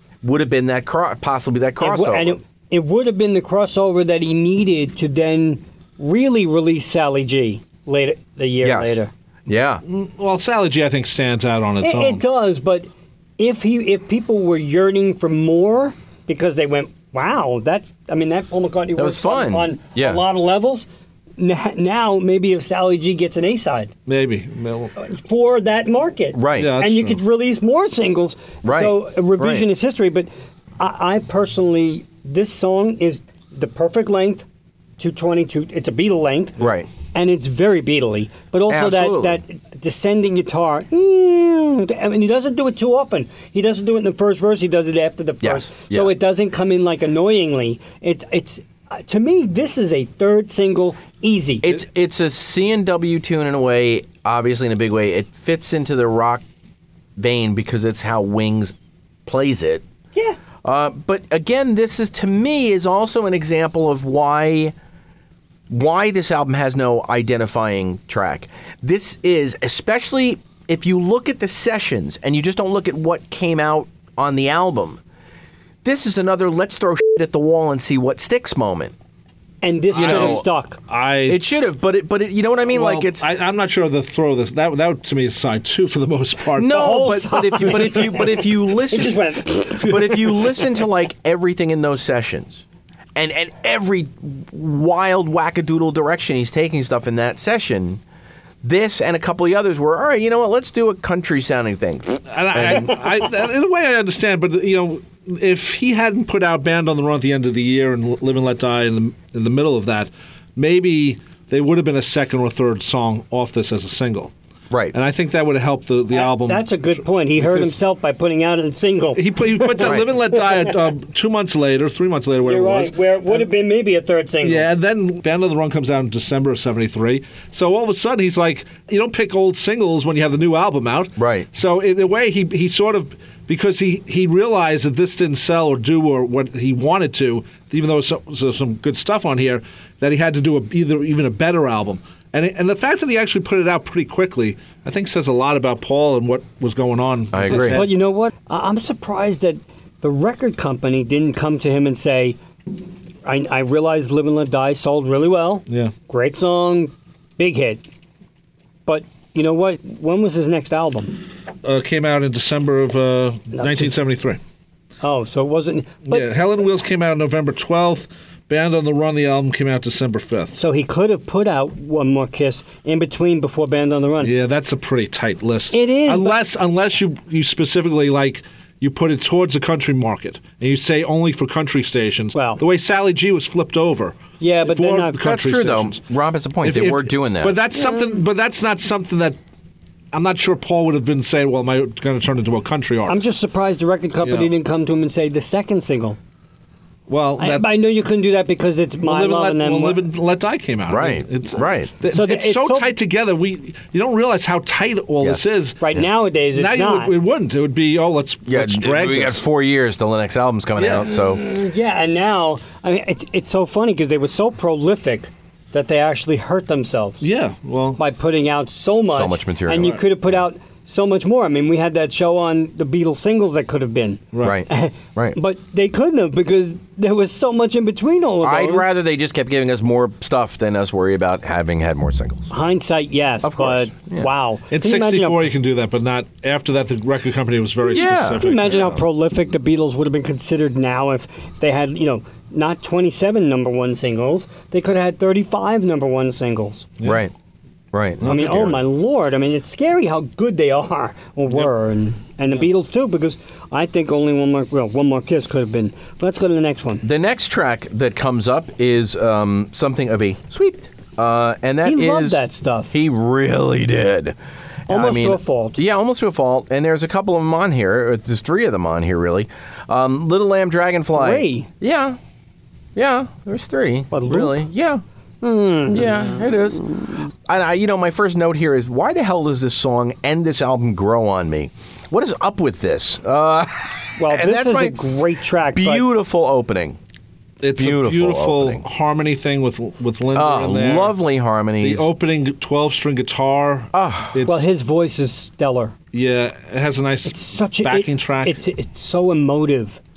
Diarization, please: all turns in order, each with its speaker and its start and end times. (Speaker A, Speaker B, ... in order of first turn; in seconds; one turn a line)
Speaker A: 0.2-2.4
Speaker B: 1.8-9.1
Speaker A: 8.6-9.8
Speaker C: 9.8-12.2
Speaker B: 11.8-20.9
Speaker A: 18.9-20.2
Speaker B: 21.4-23.9
Speaker C: 24.1-24.9
Speaker B: 25.0-34.5
Speaker A: 26.3-26.7
Speaker C: 26.5-27.2
Speaker A: 28.6-29.7
Speaker B: 35.0-51.7
Speaker A: 36.6-36.9
Speaker A: 38.7-39.4
Speaker A: 45.4-46.1
Speaker A: 51.6-56.4
Speaker A: 57.2-58.7
Speaker A: 59.2-59.8
Speaker A: 60.6-64.7
Speaker A: 65.7-75.0
Speaker A: 75.8-78.9
Speaker B: 79.6-80.8
Speaker C: 79.9-81.4
Speaker A: 79.9-80.4
Speaker A: 81.3-83.2
Speaker C: 82.7-86.8
Speaker A: 86.5-89.2
Speaker B: 86.7-90.6
Speaker A: 89.7-92.6
Speaker A: 93.2-98.0
Speaker A: 98.6-103.0
Speaker C: 102.3-114.3
Speaker C: 114.9-117.7
Speaker B: 116.1-120.7
Speaker C: 119.2-123.4
Speaker A: 119.8-120.1
Speaker B: 122.4-124.7
Speaker C: 124.4-147.9
Speaker A: 131.2-131.5
Speaker A: 147.3-147.9
Speaker B: 147.5-152.4
Speaker B: 153.2-157.8
Speaker B: 158.8-161.2
Speaker C: 161.6-164.4
Speaker B: 163.5-163.9
Speaker B: 165.0-166.3
Speaker C: 166.1-170.6
Speaker B: 170.6-174.3
Speaker C: 174.2-186.0
Speaker B: 175.7-176.4
Speaker B: 182.3-182.6
Speaker B: 184.4-185.2
Speaker A: 185.2-187.6
Speaker C: 186.6-189.4
Speaker C: 190.1-193.2
Speaker B: 193.1-196.2
Speaker C: 194.2-194.5
Speaker C: 197.1-197.8
Speaker B: 197.4-200.0
Speaker C: 199.0-205.8
Speaker A: 200.9-201.9
Speaker B: 202.1-202.9
Speaker B: 205.8-207.1
Speaker C: 206.5-209.4
Speaker A: 208.5-211.4
Speaker C: 210.8-211.1
Speaker B: 211.1-217.2
Speaker C: 217.2-218.0
Speaker B: 218.0-228.9
Speaker A: 219.1-220.4
Speaker C: 224.3-224.6
Speaker A: 224.4-225.4
Speaker A: 228.4-232.5
Speaker B: 232.5-235.4
Speaker A: 233.4-234.3
Speaker C: 234.7-239.0
Speaker B: 237.9-246.9
Speaker A: 237.9-238.7
Speaker A: 247.0-247.3
Speaker A: 247.9-248.8
Speaker C: 248.2-248.8
Speaker B: 248.2-257.0
Speaker A: 257.0-264.4
Speaker B: 261.8-262.9
Speaker A: 264.9-272.2
Speaker B: 264.9-265.8
Speaker B: 271.1-271.7
Speaker A: 272.9-275.0
Speaker B: 274.1-274.6
Speaker B: 275.4-276.4
Speaker A: 275.9-285.0
Speaker B: 284.2-286.1
Speaker A: 285.7-287.0
Speaker C: 287.6-291.1
Speaker A: 287.7-288.8
Speaker A: 290.3-292.1
Speaker C: 291.8-294.7
Speaker A: 293.9-294.4
Speaker B: 294.4-295.9
Speaker C: 296.1-298.6
Speaker B: 297.2-300.0